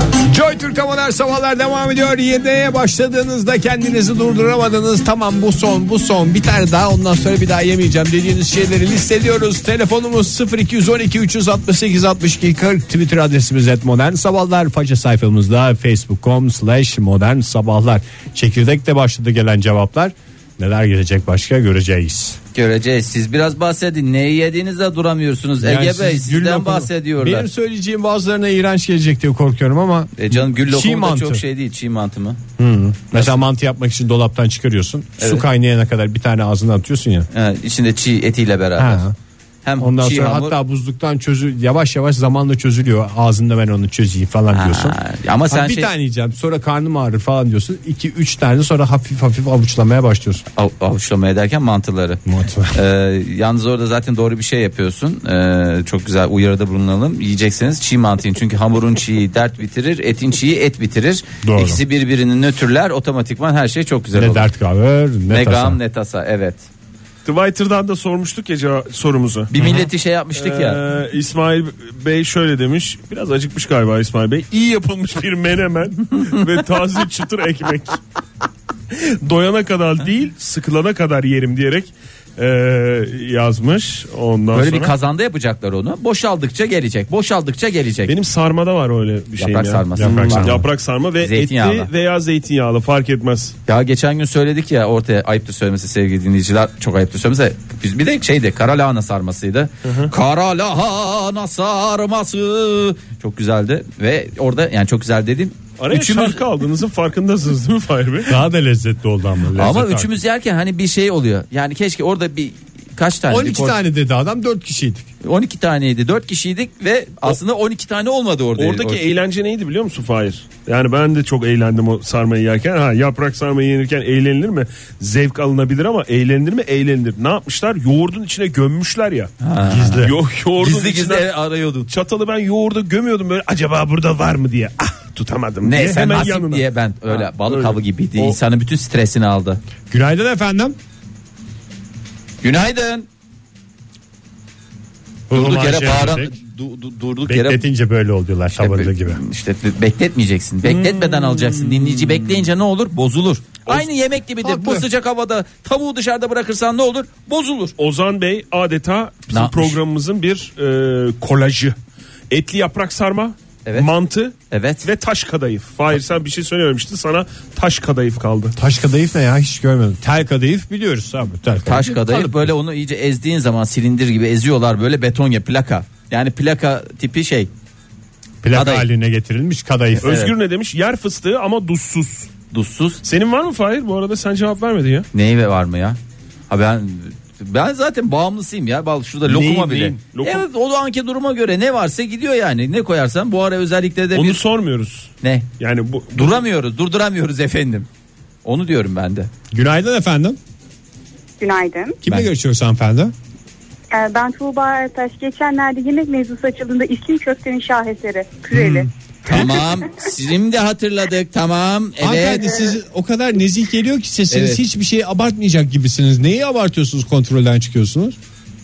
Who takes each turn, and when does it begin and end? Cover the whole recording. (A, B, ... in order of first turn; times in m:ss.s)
0:00.2-0:22.4 A
0:22.5-0:27.5 B
0:25.6-0:31.4 A
0:30.2-0:32.4 B
0:32.6-0:37.3 A
0:33.1-0:33.4 B
0:35.2-0:35.4 B
0:37.3-0:39.0 B
0:38.8-0:39.1 A
0:39.6-0:40.6 B
0:39.8-0:45.0 A
0:44.5-0:45.9 B
0:45.5-0:50.4 A
0:50.5-1:04.5 B
0:52.3-0:52.8 A
1:01.4-1:01.8 A
1:04.1-1:05.8 A
1:05.3-1:06.6 B
1:07.2-1:09.5 C
1:09.5-1:10.8 B
1:09.6-1:09.9 A
1:10.3-1:18.0 C
1:18.9-1:24.9 C
1:24.5-1:28.1 B
1:28.1-1:33.5 C
1:29.4-1:30.6 B
1:30.0-1:30.6 A
1:31.2-1:31.9 B
1:33.7-1:46.4 B
1:39.8-1:40.1 C
1:45.8-1:48.3 C
1:48.3-1:50.2 A
1:49.6-1:53.8 B
1:53.3-1:55.1 A
1:55.2-1:59.0 B
1:58.6-2:09.3 C
2:09.4-2:11.9 B
2:09.6-2:10.1 A
2:10.0-2:11.3 C
2:11.9-2:18.4 C
2:15.6-2:19.6 B
2:19.9-2:20.8 A
2:22.4-2:23.1 B
2:25.3-2:26.3 A
2:25.3-2:27.6 B
2:27.2-2:29.2 A
2:28.6-2:37.7 B
2:30.6-2:32.0 C
2:34.4-2:34.9 A
2:37.8-2:41.8 C
2:39.3-2:39.8 B
2:42.3-2:48.6 C
2:44.5-2:44.8 B
2:48.6-2:52.5 A
2:51.6-2:57.5 B
2:58.4-3:00.1 A
2:58.5-2:58.9 B
3:00.0-3:00.3 B
3:00.0-3:02.3 C
3:02.5-3:03.0 B
3:03.0-3:05.1 C
3:05.1-3:06.0 B
3:06.5-3:14.4 B
3:09.3-3:10.4 C
3:14.1-3:16.4 C
3:15.2-3:15.5 B
3:16.1-3:17.9 B
3:18.4-3:19.3 B
3:19.5-3:20.4 A
3:21.4-3:22.0 D
3:22.0-3:23.1 A
3:22.0-3:22.3 B
3:23.9-3:28.9 D
3:28.5-3:29.6 A
3:29.2-3:32.7 B
3:32.0-3:38.2 A
3:34.3-3:34.6 B